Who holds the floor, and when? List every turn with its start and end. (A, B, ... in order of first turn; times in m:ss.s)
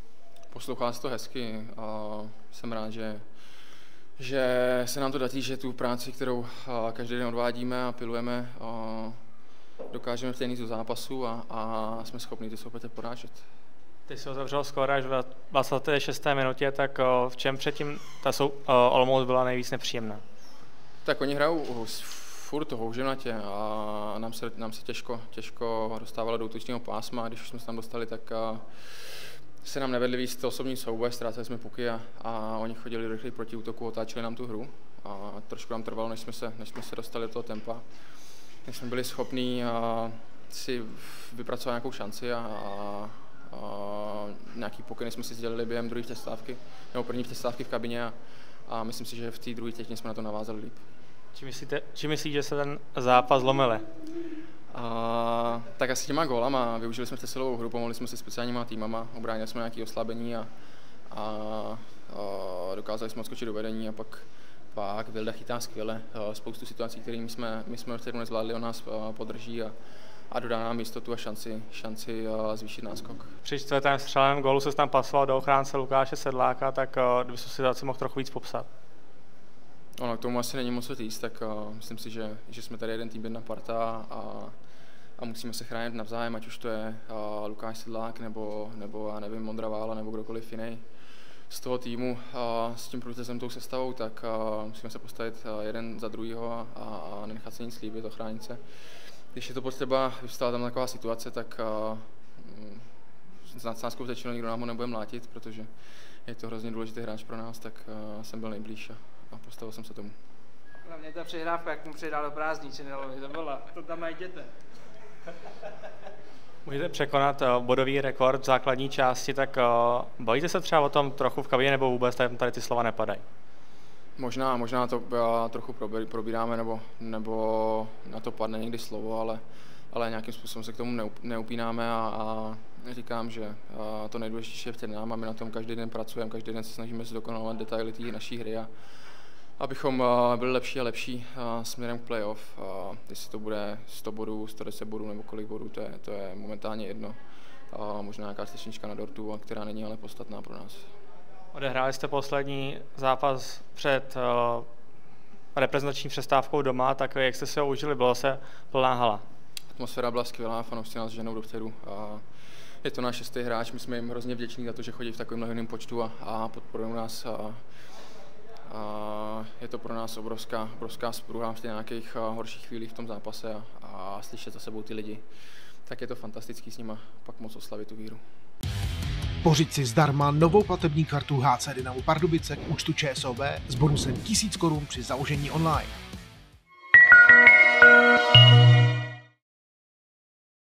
0:00.5-0:03.2 A
0:04.2-0:09.2 A
0:09.9-0:13.4 A
0:14.1-0:20.2 B
0:21.0-0:37.8 A
0:38.6-0:48.2 A
0:48.7-0:50.8 A
0:51.3-0:53.9 B
0:54.7-1:00.5 A
1:01.1-1:09.7 A
1:10.3-1:13.3 A
1:13.4-1:18.7 B
1:20.0-1:24.5 A
1:25.2-1:30.8 A
1:31.5-1:38.6 A
1:39.3-1:42.8 A
1:43.5-1:45.7 A
1:46.3-1:50.1 A
1:50.9-1:54.5 C
1:56.6-2:03.2 B
2:04.2-2:18.7 A
2:19.6-2:27.2 A
2:27.7-2:30.9 A
2:31.5-2:34.7 B
2:35.5-2:39.2 B
2:39.7-2:42.2 A
2:42.8-2:47.6 A
2:48.7-2:55.2 A
2:55.9-2:58.2 A
2:59.4-3:06.0 D